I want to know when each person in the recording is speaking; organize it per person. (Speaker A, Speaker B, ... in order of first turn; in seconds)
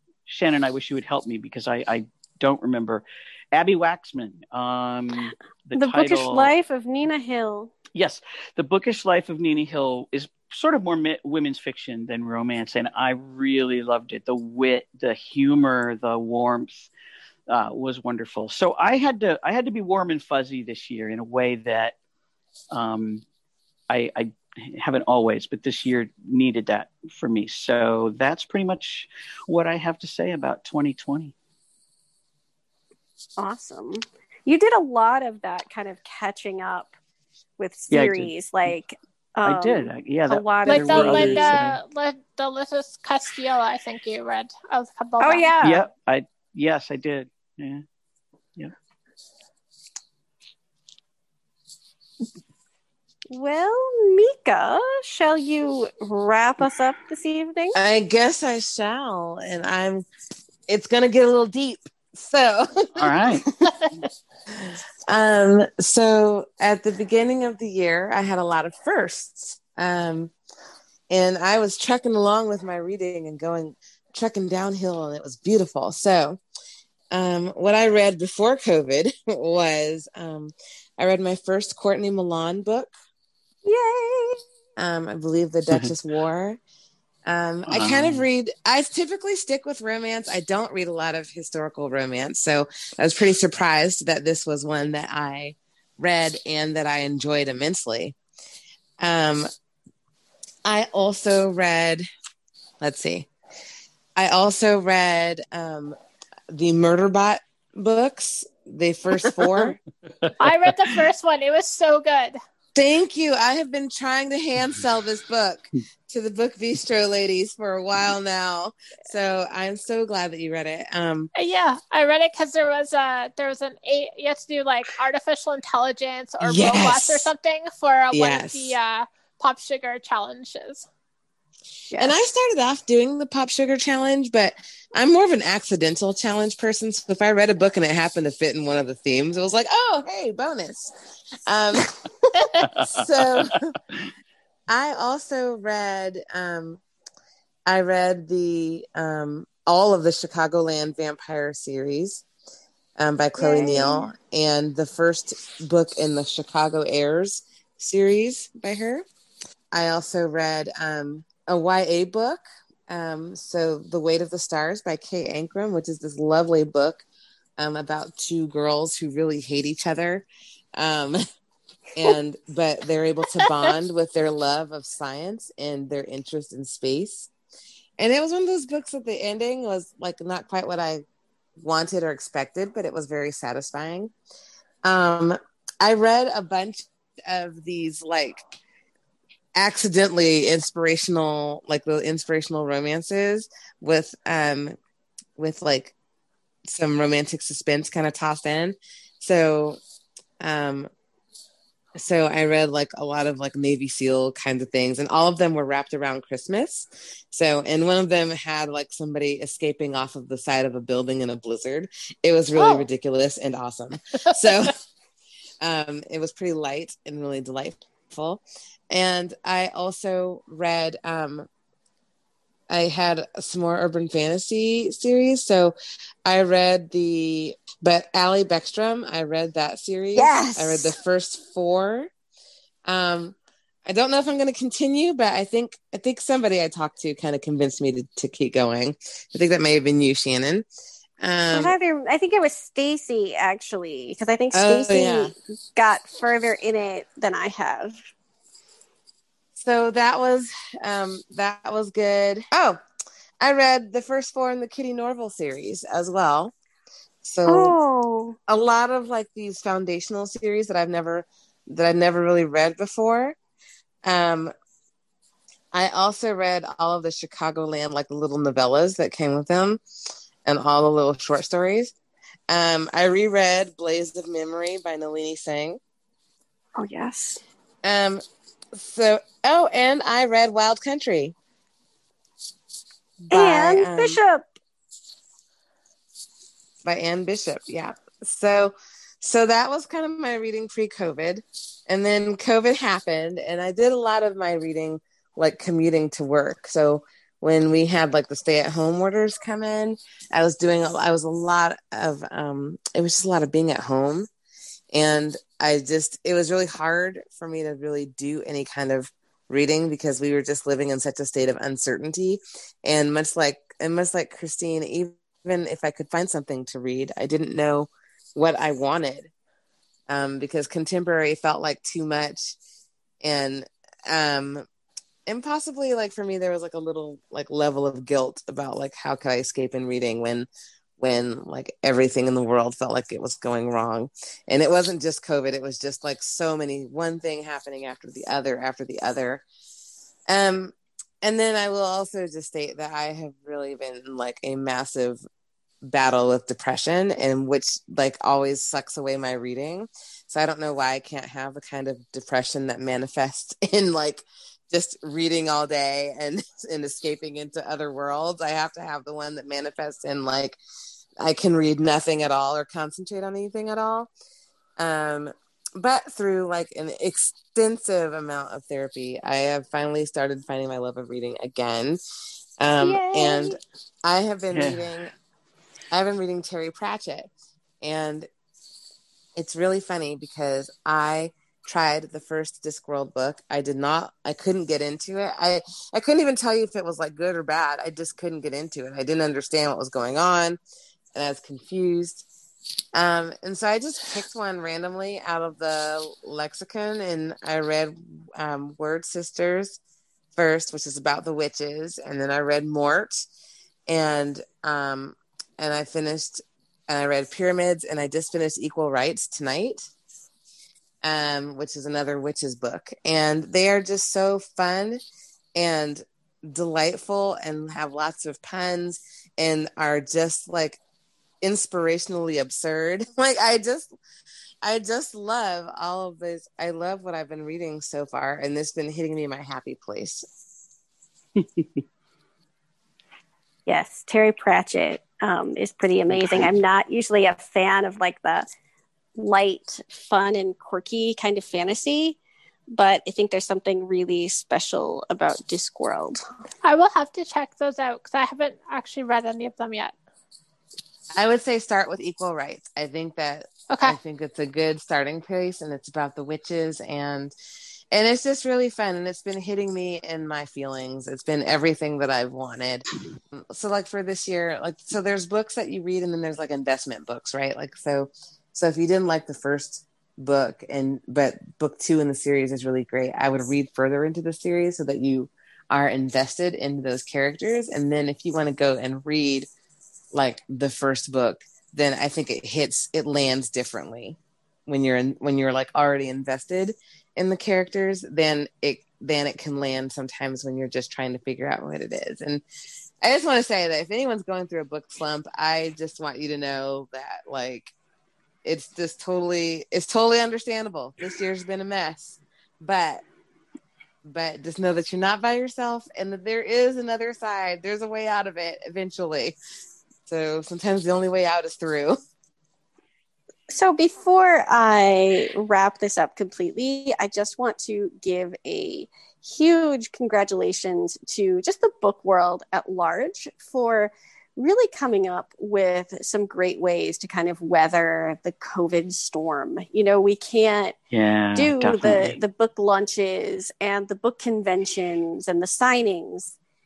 Speaker A: 0.2-6.5, 7.9-16.9, 17.5-21.9, 22.7-23.2, 23.9-31.3, 37.9-38.8, 39.4-41.8, 45.6-47.8, 62.9-63.5, 87.7-88.2, 110.2-110.7, 142.7-143.5, 374.5-374.8, 431.4-431.8, 436.1-436.4, 530.9-532.2
Speaker B: 5.8-7.7, 33.4-36.9, 37.6-41.6, 45.2-45.9, 53.3-57.8, 83.6-84.4, 131.9-132.2, 153.4-154.1, 212.6-212.9, 230.1-230.9, 241.5-247.9, 257.5-258.4, 276.8-277.4, 283.3-284.5, 372.8-373.6, 433.6-438.5, 439.1-442.2, 442.7-446.2, 513.5-530.7, 531.3-536.4
Speaker C: 40.7-45.5, 110.4-112.4, 121.3-130.8, 446.6-449.9, 453.7-454.0
Speaker D: 57.7-60.0, 60.7-63.7, 64.5-70.3, 71.1-76.4, 77.1-82.9, 84.8-86.6, 87.2-98.2, 99.0-99.5, 100.6-102.0, 102.8-103.3, 104.2-106.0, 106.5-109.8, 112.7-121.3, 126.4-127.3, 128.1-128.8, 132.0-140.9, 141.5-143.7, 144.7-146.8, 147.7-152.2, 153.0-159.0, 159.7-167.0, 167.6-170.2, 170.8-171.2, 171.9-177.3, 178.0-181.0, 181.6-184.1, 184.8-188.4, 189.6-194.8, 195.4-195.9, 196.7-199.8, 200.4-200.9, 201.9-214.7, 215.6-221.5, 222.7-225.7, 226.2-232.1, 232.9-240.6, 241.2-241.7, 244.5-245.3, 249.6-252.8, 253.4-256.5, 257.2-257.8, 258.5-263.4, 264.0-264.5, 265.7-269.8, 270.4-271.9, 272.5-275.8, 277.8-278.2, 278.7-281.3, 283.3-284.2, 286.8-304.3, 304.9-319.3, 320.1-322.6, 323.2-324.6, 325.3-330.5, 331.0-339.4, 340.3-345.2, 345.8-360.6, 361.2-364.1, 364.8-372.0, 372.6-375.1, 375.9-377.3, 377.8-378.3, 379.4-390.6, 391.1-392.2, 392.9-399.8, 400.3-403.2, 403.9-409.9, 411.0-415.0, 415.6-420.8, 421.4-423.9, 424.6-430.2, 451.1-457.3, 457.9-479.5, 480.1-492.4, 493.0-497.7, 498.4-503.0, 504.1-509.3, 510.1-512.0